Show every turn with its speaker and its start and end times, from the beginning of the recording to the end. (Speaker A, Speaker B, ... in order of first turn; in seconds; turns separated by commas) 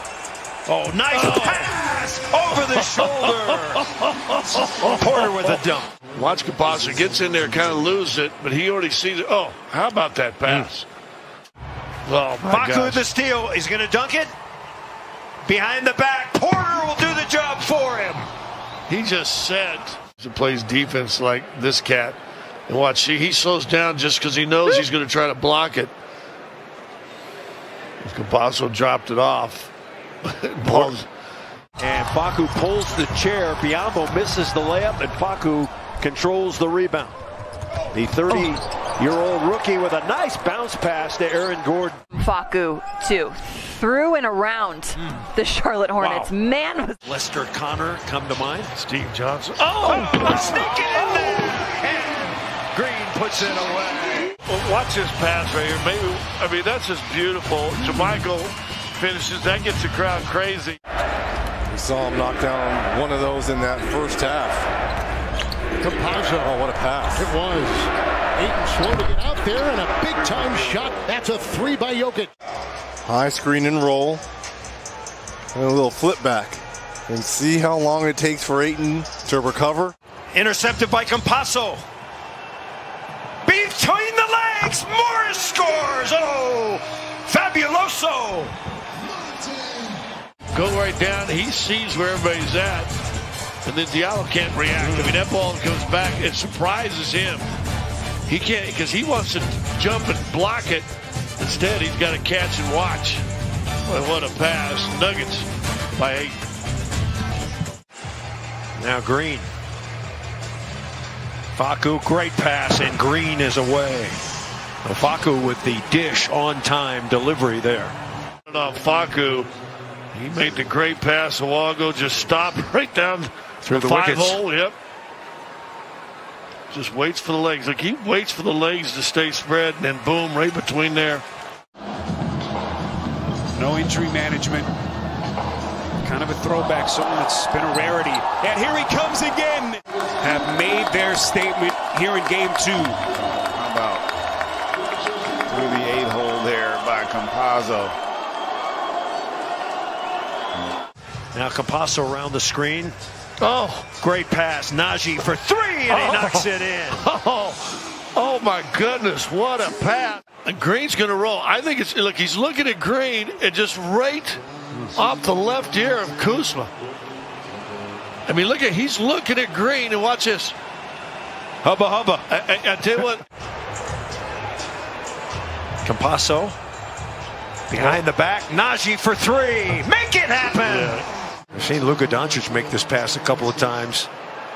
Speaker A: 0.7-3.8, Speaker B: 1.1-1.8, Speaker B: 2.7-5.6, Speaker A: 4.8-5.9, Speaker B: 6.1-10.9, Speaker B: 12.0-13.1, Speaker A: 12.4-14.3, Speaker A: 15.4-18.3, Speaker B: 18.9-25.9, Speaker B: 28.0-29.7, Speaker B: 30.2-31.1, Speaker A: 30.6-31.0, Speaker A: 31.8-37.2, Speaker A: 37.9-42.0, Speaker C: 42.1-47.0, Speaker A: 45.0-45.2, Speaker A: 46.0-46.3, Speaker A: 47.0-48.7, Speaker B: 48.7-51.5, Speaker A: 49.6-54.3, Speaker B: 54.4-60.8, Speaker D: 61.7-64.7, Speaker E: 65.8-66.5, Speaker D: 66.4-67.3, Speaker E: 67.1-72.3, Speaker D: 73.0-74.2, Speaker D: 75.5-79.9, Speaker A: 80.3-81.8, Speaker A: 83.4-88.5, Speaker B: 90.5-92.9, Speaker B: 93.6-97.5, Speaker B: 98.3-100.9, Speaker B: 101.4-103.2, Speaker B: 103.9-106.4, Speaker A: 108.8-109.5, Speaker A: 111.5-114.2, Speaker A: 114.8-117.9, Speaker B: 118.5-119.5, Speaker B: 120.1-124.7, Speaker A: 123.6-124.4, Speaker B: 126.7-131.2, Speaker F: 133.6-134.7, Speaker F: 136.0-143.0, Speaker G: 143.1-144.1, Speaker G: 145.5-147.9, Speaker A: 151.3-152.9, Speaker B: 153.4-153.9, Speaker A: 154.0-157.0, Speaker B: 155.9-164.4, Speaker B: 164.9-166.7, Speaker B: 168.3-170.6, Speaker A: 171.6-172.2, Speaker B: 172.3-173.2, Speaker A: 175.8-176.6, Speaker A: 177.7-181.0, Speaker B: 177.7-178.0, Speaker B: 180.6-181.0, Speaker A: 181.5-184.1